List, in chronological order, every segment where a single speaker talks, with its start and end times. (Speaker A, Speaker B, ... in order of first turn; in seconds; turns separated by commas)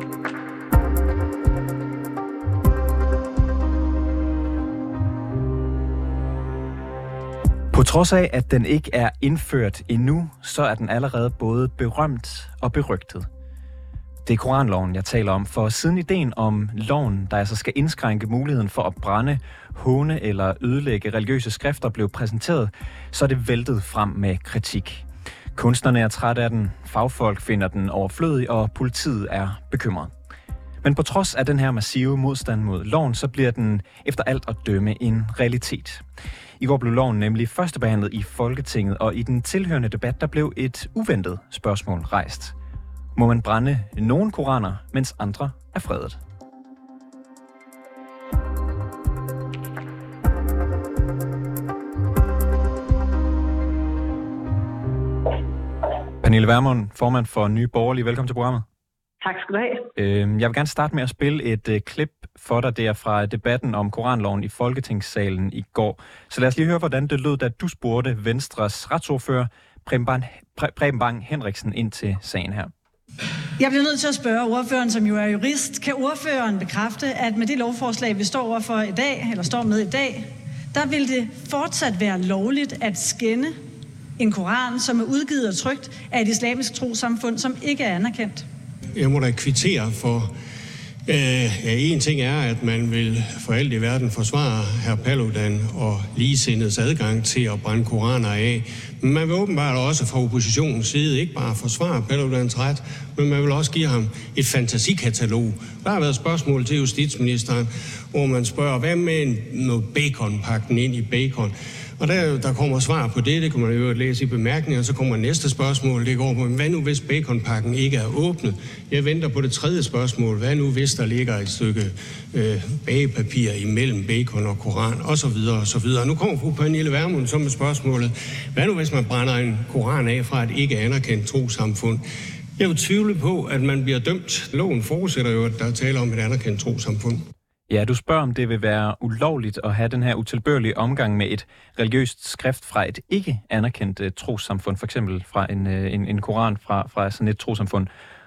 Speaker A: 7.7-13.3, Speaker A: 14.3-25.0, Speaker A: 25.6-30.1, Speaker A: 30.8-36.0, Speaker A: 36.6-42.5, Speaker A: 43.2-46.2, Speaker A: 56.2-58.6, Speaker B: 59.2-59.9, Speaker A: 60.0-72.7, Speaker B: 73.6-83.5, Speaker B: 84.2-88.4, Speaker C: 89.0-90.3, Speaker C: 91.1-132.0, Speaker C: 132.6-137.2, Speaker A: 137.7-147.9